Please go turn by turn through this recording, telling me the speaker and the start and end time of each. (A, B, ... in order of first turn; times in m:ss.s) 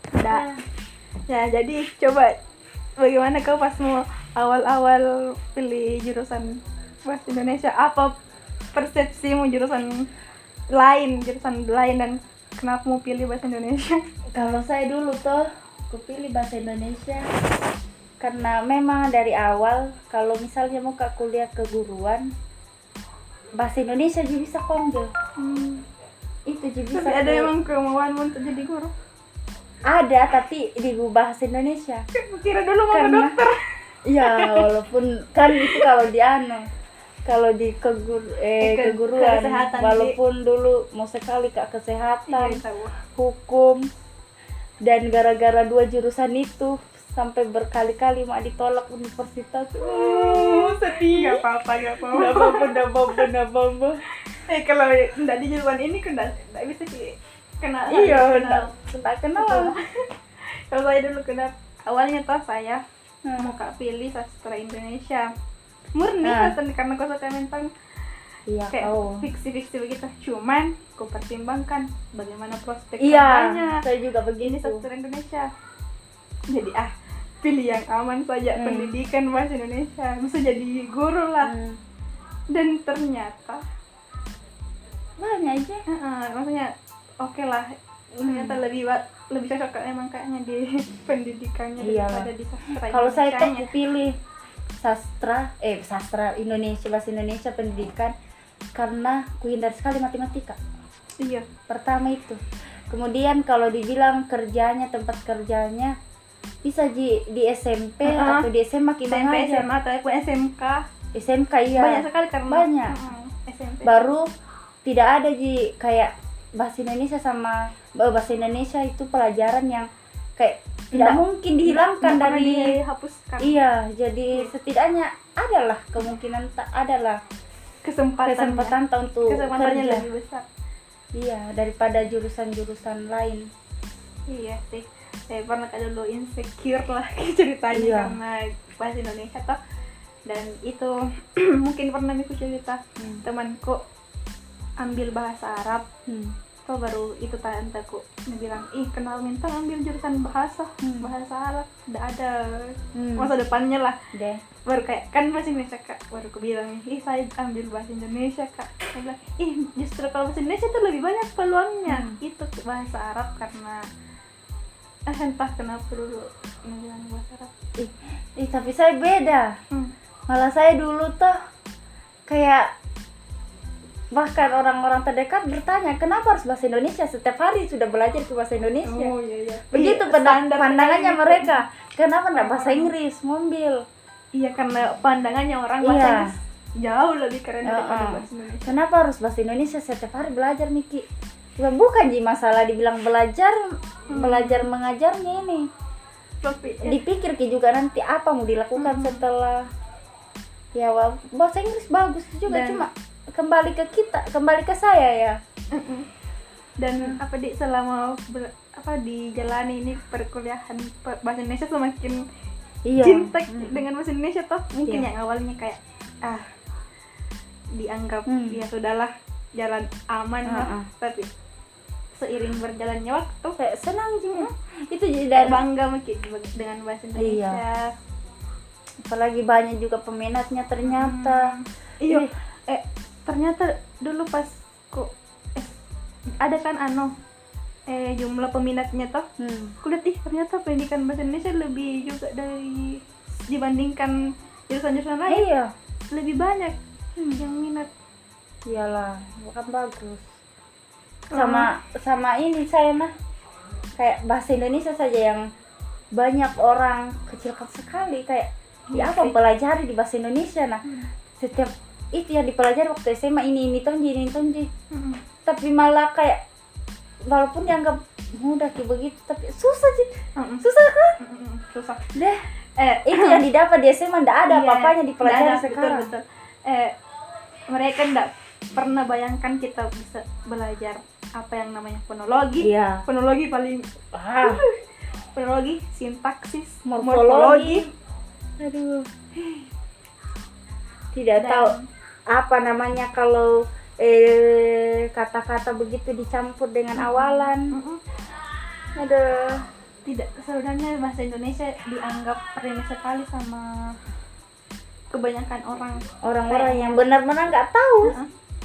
0:00.2-0:00.5 A
0:00.3-0:00.6 B
0:01.3-0:02.4 A
0:03.0-0:08.1 A
0:08.7-0:10.1 A
0:10.7-0:14.0 A
0:14.4-0:17.3 B
0:18.2-0:22.3 B
0:23.6-0:25.1 B
0:25.4-0:25.8 A
0:26.4-0:27.5 B
0:26.9-0:28.9 A
0:29.9-0:32.0 B
0:32.2-0:33.6 A
0:32.9-0:33.4 B
0:34.0-0:36.7 B
0:34.2-0:34.7 A
0:35.5-0:35.9 A
0:37.2-0:42.6 B
0:38.6-0:40.2 A
0:42.3-0:43.0 A
0:43.2-0:43.9 B
0:44.8-0:51.4 B
0:49.8-0:53.3 A
0:52.0-0:54.0 B
0:54.3-0:58.7 A
0:57.9-0:59.8 B
0:59.4-0:59.8 A
1:00.4-1:02.8 A
1:03.2-1:03.6 B
1:03.4-1:05.3 A
1:06.0-1:07.7 A
1:06.2-1:06.6 B
1:08.5-1:09.3 B
1:08.7-1:13.8 A
1:13.0-1:14.9 B
1:14.4-1:15.5 A
1:16.5-1:16.9 A
1:17.4-1:21.5 A
1:18.6-1:19.0 B
1:21.4-1:21.8 B
1:22.5-1:23.6 A
1:25.2-1:25.8 B
1:25.9-1:33.7 A
1:28.2-1:28.6 B
1:31.8-1:32.3 B
1:32.8-1:34.2 B
1:34.8-1:38.1 B
1:38.8-1:40.6 B
1:41.2-1:41.5 A
1:41.7-1:46.0 B
1:46.6-1:49.7 B
1:48.0-1:48.5 A
1:49.1-1:50.9 A
1:51.1-1:53.0 B
1:51.8-1:54.1 A
1:53.8-1:54.3 B
1:54.8-2:02.8 B
2:00.9-2:03.6 A
2:03.4-2:07.2 B
2:07.8-2:10.4 A
2:08.2-2:10.1 B
2:11.1-2:13.5 B
2:14.3-2:19.6 A
2:17.7-2:18.2 B
2:20.3-2:23.8 A
2:23.0-2:23.2 B
2:24.8-2:25.8 A
2:26.1-2:26.4 B
2:26.7-2:34.0 A
2:30.8-2:31.1 B
2:32.9-2:33.3 B
2:34.1-2:34.4 B
2:34.7-2:43.8 A
2:41.8-2:42.2 B
2:45.1-2:47.5 A
2:47.8-2:49.6 B
2:50.3-2:51.4 B
2:52.3-2:52.7 B
2:54.1-2:59.1 B
2:58.8-3:01.6 A
2:59.7-3:03.8 B
3:02.3-3:02.9 A
3:04.3-3:08.7 A
3:05.8-3:06.4 B
3:07.6-3:11.1 B
3:11.6-3:15.7 B
3:14.1-3:14.7 A
3:16.4-3:17.0 A
3:16.8-3:19.7 B
3:18.8-3:19.2 A
3:20.7-3:25.4 B
3:22.5-3:22.9 A
3:25.7-3:26.1 A
3:26.8-3:32.2 A
3:32.8-3:33.8 B
3:33.0-3:36.4 A
3:37.7-3:41.3 A
3:38.3-3:38.6 B
3:40.4-3:40.9 B
3:42.1-3:43.6 A
3:43.6-3:45.6 B
3:45.3-3:47.9 A
3:47.2-3:47.6 B
3:49.0-3:51.5 B
3:50.8-3:55.8 A
3:52.0-3:52.3 B
3:56.4-3:57.1 A
3:57.9-3:59.2 A
3:59.4-3:59.8 B
3:59.8-4:05.4 A
4:05.3-4:05.7 B
4:06.1-4:06.8 A
4:07.2-4:07.4 B
4:07.3-4:07.9 A
4:08.7-4:10.3 B
4:11.3-4:11.7 A
4:11.3-4:13.1 B
4:14.0-4:15.5 B
4:16.1-4:20.8 B
4:18.9-4:19.4 A
4:21.4-4:24.7 B
4:24.9-4:25.2 A
4:25.4-4:26.4 B
4:27.3-4:31.2 B
4:30.4-4:30.6 A
4:31.2-4:32.1 A
4:32.1-4:32.4 B
4:32.8-4:33.4 A
4:33.0-4:36.1 B
4:34.5-4:36.9 A
4:37.7-4:44.8 A
4:42.6-4:43.0 B
4:44.1-4:44.6 B
4:45.4-4:47.9 A
4:46.9-4:47.9 B
4:48.6-4:49.1 B
4:49.3-4:49.7 A
4:51.1-4:51.8 B
4:51.4-4:51.9 A
4:52.3-4:57.8 B
4:57.0-4:58.0 A
4:58.9-4:59.7 B
5:00.0-5:03.9 A
5:05.1-5:07.0 A
5:06.2-5:08.2 B
5:08.0-5:08.3 A